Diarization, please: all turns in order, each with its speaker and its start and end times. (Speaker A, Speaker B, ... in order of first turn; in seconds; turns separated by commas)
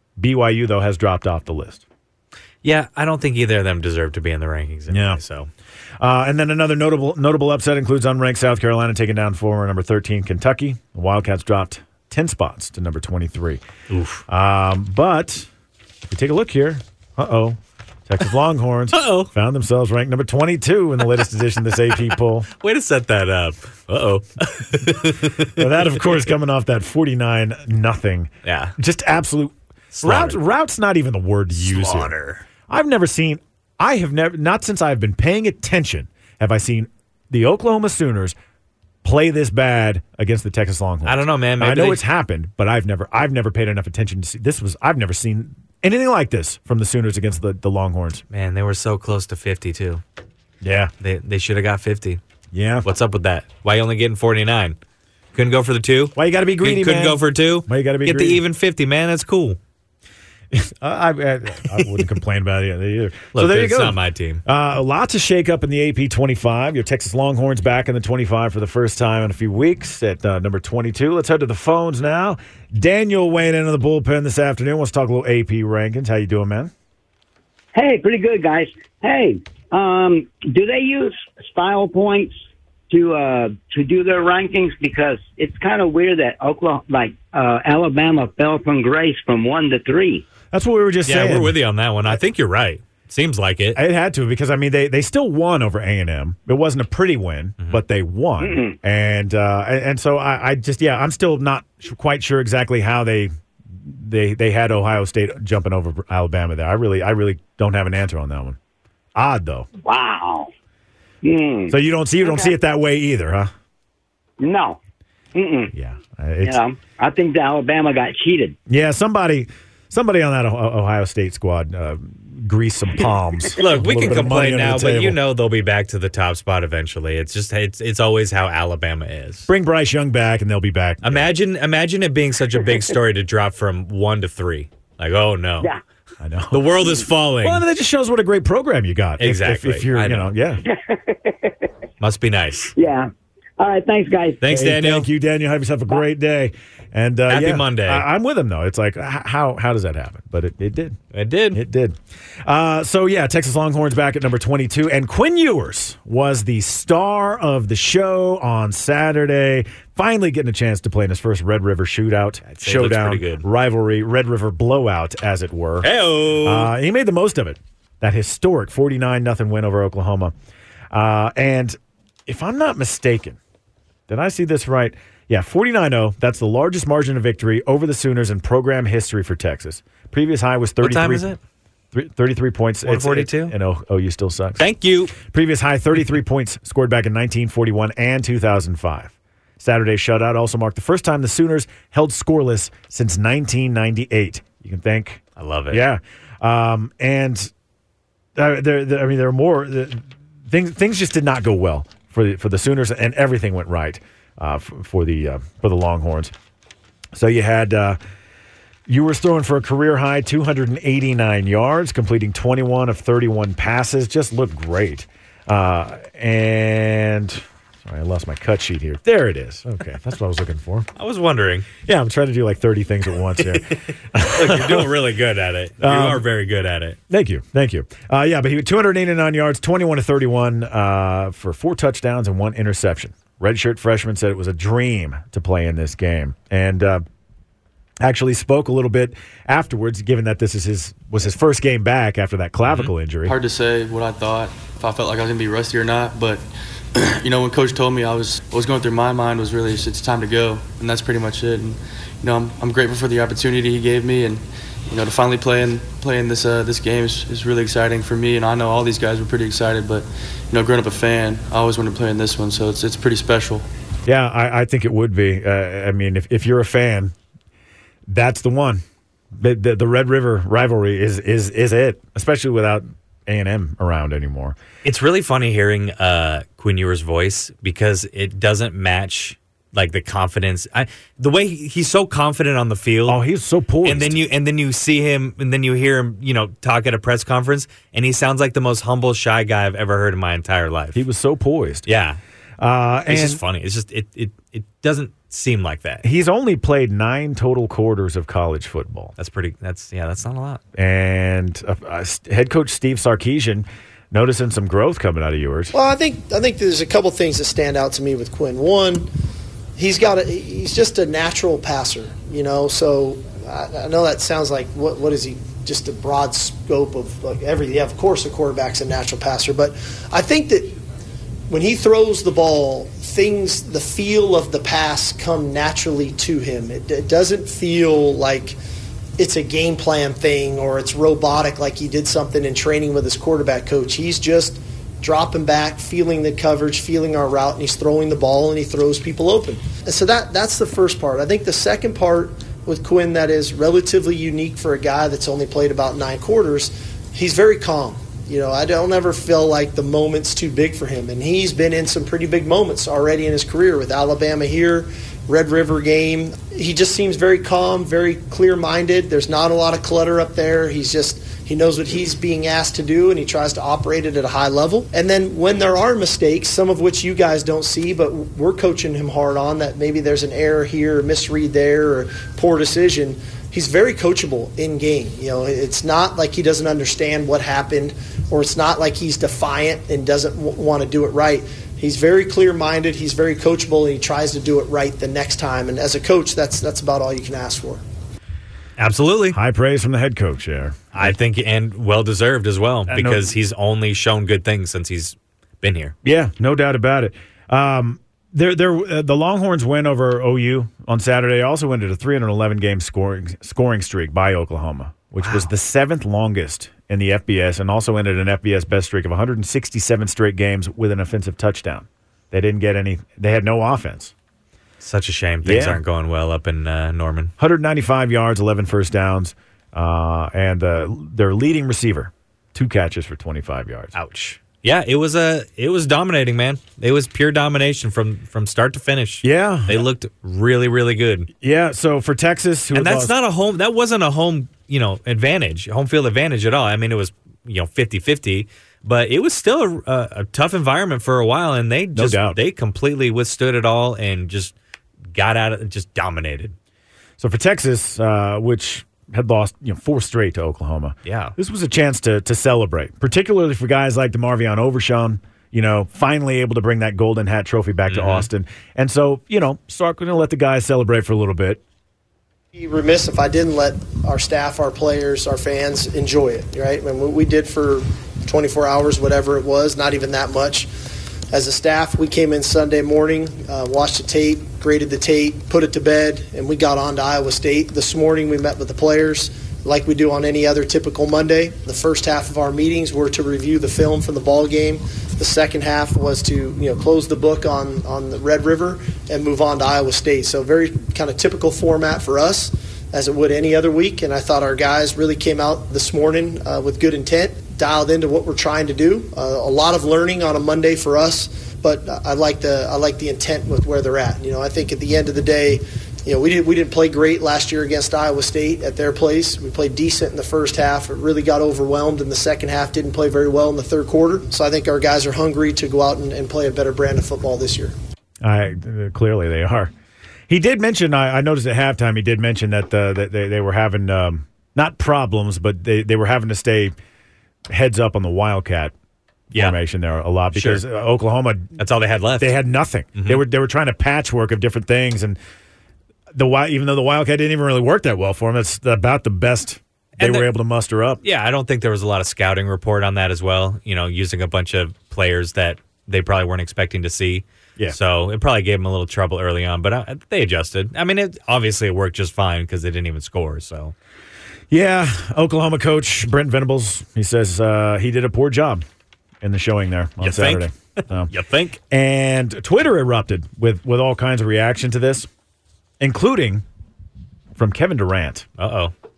Speaker A: 0.2-1.8, Speaker B: 2.6-5.5, Speaker A: 4.9-5.2, Speaker A: 6.0-13.6, Speaker B: 13.9-14.2, Speaker A: 14.3-15.5, Speaker A: 16.1-22.5, Speaker B: 18.9-19.3, Speaker B: 22.5-26.0, Speaker A: 25.4-32.1, Speaker B: 28.4-28.7, Speaker B: 29.9-30.4, Speaker B: 31.5-32.4, Speaker A: 32.7-38.3, Speaker A: 39.0-48.2, Speaker B: 41.0-42.0, Speaker B: 48.3-50.0, Speaker A: 50.6-50.9, Speaker B: 51.0-52.2, Speaker A: 52.5-52.9, Speaker B: 52.8-54.8, Speaker B: 55.3-59.6, Speaker A: 56.1-58.4, Speaker A: 60.5-76.7, Speaker B: 63.3-64.4, Speaker C: 77.7-82.3, Speaker C: 82.9-90.2, Speaker A: 90.5-91.6, Speaker B: 91.0-93.8, Speaker A: 93.7-108.6, Speaker C: 98.4-98.8, Speaker A: 109.1-109.7, Speaker C: 109.8-110.5, Speaker C: 111.2-112.5, Speaker A: 111.7-113.5, Speaker C: 114.4-114.8, Speaker C: 115.3-115.7, Speaker A: 115.7-116.6, Speaker C: 116.4-118.5, Speaker A: 118.7-125.2, Speaker B: 123.5-129.5, Speaker A: 129.5-131.3, Speaker B: 131.0-135.7, Speaker A: 136.2-136.7, Speaker B: 136.5-137.6, Speaker A: 137.4-140.6, Speaker B: 139.2-140.3, Speaker C: 140.7-141.6, Speaker B: 142.0-142.7, Speaker C: 142.7-144.4, Speaker B: 144.4-145.1, Speaker A: 144.5-151.0, Speaker B: 147.3-148.1, Speaker B: 151.1-151.6, Speaker A: 151.5-165.9, Speaker B: 162.4-163.4, Speaker B: 165.8-166.7, Speaker A: 166.4-170.3, Speaker A: 170.9-173.4, Speaker A: 174.1-181.3, Speaker B: 180.8-181.4, Speaker A: 181.9-184.6, Speaker B: 182.8-183.5, Speaker B: 184.6-185.1, Speaker A: 185.1-197.5, Speaker B: 195.4-195.8, Speaker A: 198.3-206.3, Speaker A: 207.1-208.0, Speaker A: 208.9-220.9, Speaker B: 220.9-221.7, Speaker A: 221.8-224.9, Speaker B: 224.2-227.0, Speaker A: 225.8-226.2, Speaker A: 227.1-237.0, Speaker A: 238.0-243.3, Speaker B: 242.7-242.9, Speaker D: 243.2-263.6, Speaker A: 264.1-267.1, Speaker A: 268.1-268.8, Speaker A: 269.4-274.6, Speaker B: 274.8-283.2, Speaker A: 283.1-284.2, Speaker B: 283.8-291.0, Speaker A: 290.9-291.9, Speaker B: 291.9-292.2, Speaker A: 292.6-293.4, Speaker B: 293.1-296.0, Speaker A: 296.0-299.1, Speaker B: 299.2-300.6, Speaker A: 300.7-305.7, Speaker E: 305.7-309.1, Speaker E: 309.8-320.8, Speaker E: 321.5-328.6, Speaker E: 329.2-387.8, Speaker B: 388.8-389.4, Speaker A: 389.3-391.1, Speaker B: 390.9-395.9, Speaker A: 392.9-393.3, Speaker A: 396.0-414.1, Speaker B: 405.2-405.5, Speaker B: 414.8-417.3, Speaker A: 415.4-415.8, Speaker A: 417.4-423.9, Speaker B: 423.9-431.3, Speaker A: 429.2-429.8, Speaker A: 431.4-433.1, Speaker B: 432.7-444.5, Speaker A: 441.9-442.4, Speaker B: 445.1-446.5, Speaker A: 447.2-461.6, Speaker B: 451.0-451.3, Speaker B: 457.9-458.3, Speaker E: 462.5-470.7, Speaker E: 471.3-517.7, Speaker A: 518.2-519.7, Speaker A: 520.3-526.7, Speaker A: 527.5-528.7, Speaker B: 529.3-529.6, Speaker A: 529.3-531.6, Speaker B: 530.3-530.6, Speaker B: 531.6-532.4, Speaker A: 532.2-535.2, Speaker B: 532.9-533.2, Speaker A: 536.1-541.0, Speaker B: 540.0-540.3, Speaker B: 541.0-553.7, Speaker A: 554.5-558.6, Speaker A: 559.2-565.1, Speaker B: 560.0-561.6, Speaker A: 565.8-566.4, Speaker A: 567.4-568.3, Speaker B: 568.4-568.7